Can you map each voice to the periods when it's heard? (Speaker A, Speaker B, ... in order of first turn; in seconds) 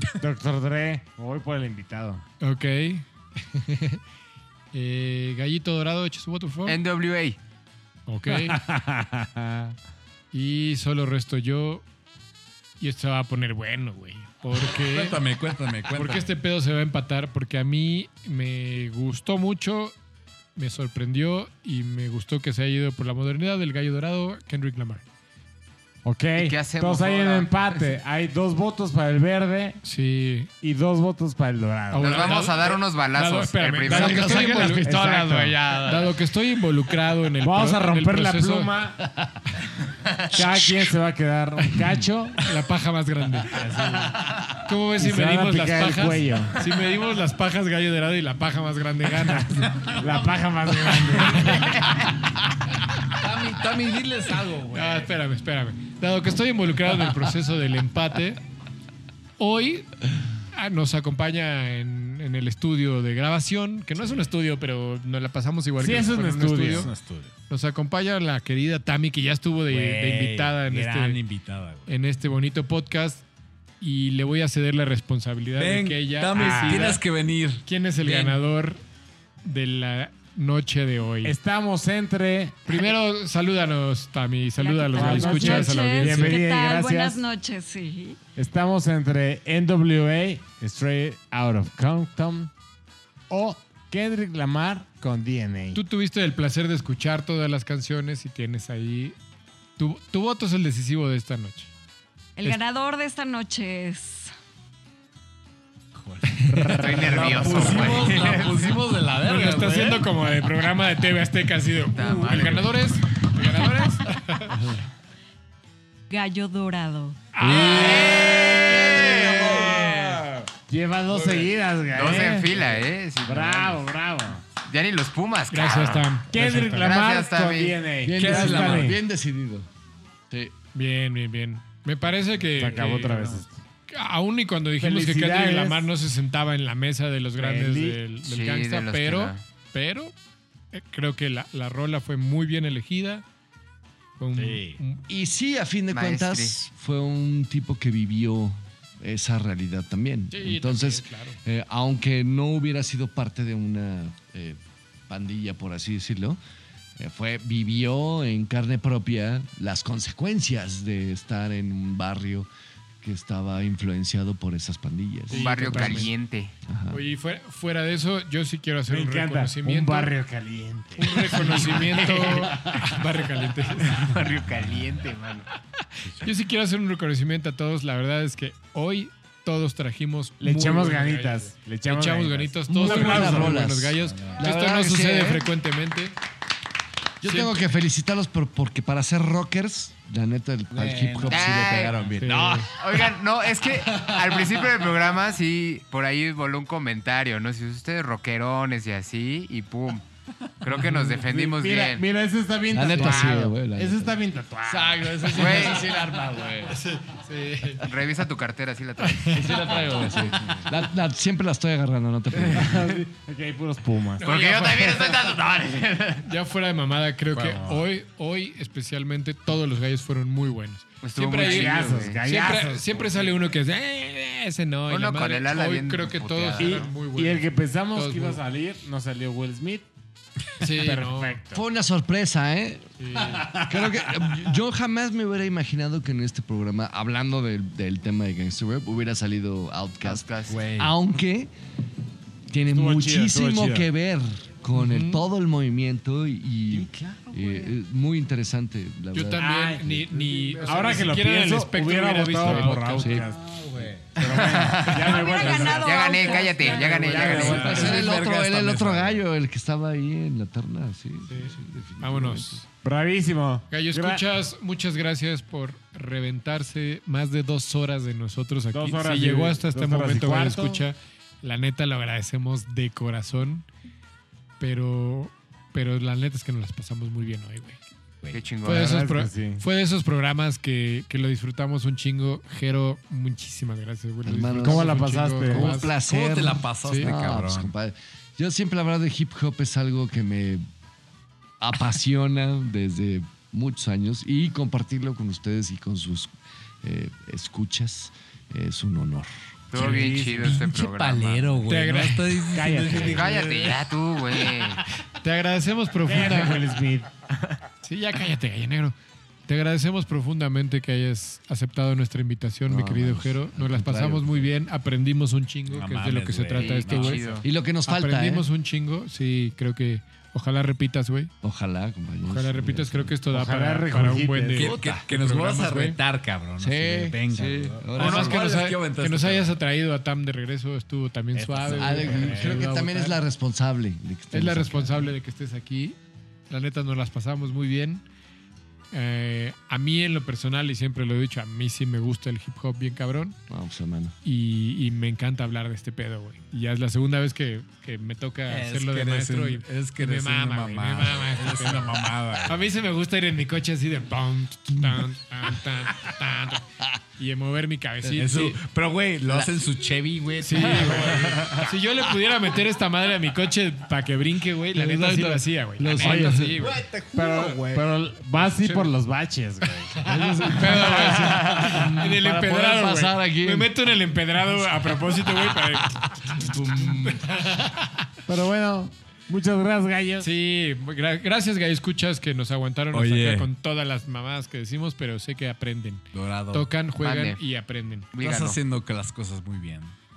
Speaker A: 0.2-2.2, 8.3-9.7, 26.0-29.8, 30.6-32.3, 34.7-35.5, 37.4-39.0, 40.3-42.4, 43.6-44.1, 45.0-46.7, 50.0-51.7, 65.8-66.9, 76.3-77.0, 81.2-82.7, 84.9-87.3, 88.3-92.5, 93.3-95.8, 106.5-108.0, 117.5-118.0, 120.7-122.5, 123.2-124.4, 126.3-129.0, 132.5-133.6, 134.8-135.9, 137.4-138.0, 168.9-173.0, 180.4-183.6, 201.2-205.4, 212.5-214.4, 221.4-223.5, 226.6-229.9, 230.7-231.6, 242.7-243.9, 249.4-258.1, 262.8-264.2, 268.7-270.8, 278.7-279.6, 284.6-285.8, 299.8-300.6, 302.5-303.4, 306.0-307.1, 323.3-324.7, 331.3-332.7, 367.1-370.0, 378.3-380.3
Speaker B: 2.4-4.0, 4.7-6.8, 8.1-8.6, 10.3-11.8, 12.8-15.2, 15.9-19.9, 20.6-25.0, 29.8-30.5, 31.9-38.8, 42.4-43.6, 44.6-49.9, 50.9-51.9, 54.7-58.4, 59.4-60.0, 60.5-66.9, 67.5-71.2, 71.9-73.2, 73.8-77.0, 77.6-78.8, 79.4-81.3, 82.7-86.4, 95.7-99.1, 99.8-101.7, 106.4-107.0, 107.7-107.9, 109.2-114.6, 117.3-119.7, 125.5-127.0, 130.7-140.1, 140.7-143.2, 144.2-145.0, 150.3-151.4, 165.3-166.1, 166.9-170.1, 171.0-174.1, 176.0-186.2, 187.2-187.5, 192.2-192.7, 206.7-207.8, 209.0-209.6, 214.2-215.2, 216.2-228.4, 230.6-231.4, 233.0-233.5, 244.7-245.3, 249.1-253.2, 261.3-262.6, 263.7-273.7, 274.6-277.8, 278.6-285.9, 286.8-287.1, 301.7-302.5, 305.1-306.7, 307.8-308.9, 309.5-321.3, 322.2-326.0, 327.9-333.2, 334.3-335.9, 336.5-338.0, 338.9-343.4, 344.2-356.6, 357.2-358.6, 360.4-366.8, 370.0-378.0, 380.2-388.1
Speaker C: 6.6-7.4, 26.4-27.9, 32.0-34.7, 106.7-108.8, 111.9-112.8, 117.6-119.6, 121.9-123.8, 124.7-126.1, 126.7-127.8, 138.2-139.4, 145.9-146.6, 165.3-166.5, 171.8-172.5, 173.9-175.5, 191.3-191.9, 192.8-200.0, 200.6-202.1, 205.3-205.9, 207.8-209.8, 214.2-216.2, 221.0-222.2, 224.9-226.9, 240.0-240.6, 254.2-257.9, 278.3-279.0, 299.7-301.7, 302.9-304.8, 316.5-317.4, 387.0-387.4, 388.1-388.6
Speaker D: 14.6-16.3, 49.7-50.4, 53.0-55.1, 64.0-64.2, 66.5-67.3, 69.7-71.9, 75.5-78.4, 105.9-110.1, 117.4-120.5, 121.2-121.5, 128.1-129.0, 144.4-144.8, 174.1-175.1, 184.0-184.4, 190.7-193.1, 193.7-194.7, 210.1-210.6, 217.3-217.8, 233.3-233.6, 240.5-240.9, 246.7-247.8, 253.0-254.2, 257.0-259.2, 285.9-287.7, 299.7-303.9, 315.7-317.4, 324.6-329.6, 348.5-352.6, 358.1-361.7, 366.3-367.9, 382.9-383.5, 386.1-386.7, 388.2-389.9
Speaker E: 33.8-36.1, 40.4-40.8, 128.0-129.7, 145.1-154.6, 155.1-156.4, 157.0-162.5, 163.0-166.1, 166.7-167.0, 182.7-185.5, 187.2-191.9, 202.7-206.8, 209.3-212.9, 231.5-232.9, 233.4-241.5, 242.5-249.7, 253.0-253.2, 257.3-262.6, 284.2-290.6, 291.6-296.3, 296.8-299.3, 312.6-314.5, 317.4-318.4, 321.4-323.1, 324.7-325.0, 326.6-328.5, 331.8-335.1, 343.5-344.1, 354.7-355.1, 359.2-359.6, 364.7-366.6, 370.0-373.7, 376.2-377.3
Speaker F: 84.6-88.2, 102.4-104.3, 116.1-117.3, 255.0-257.3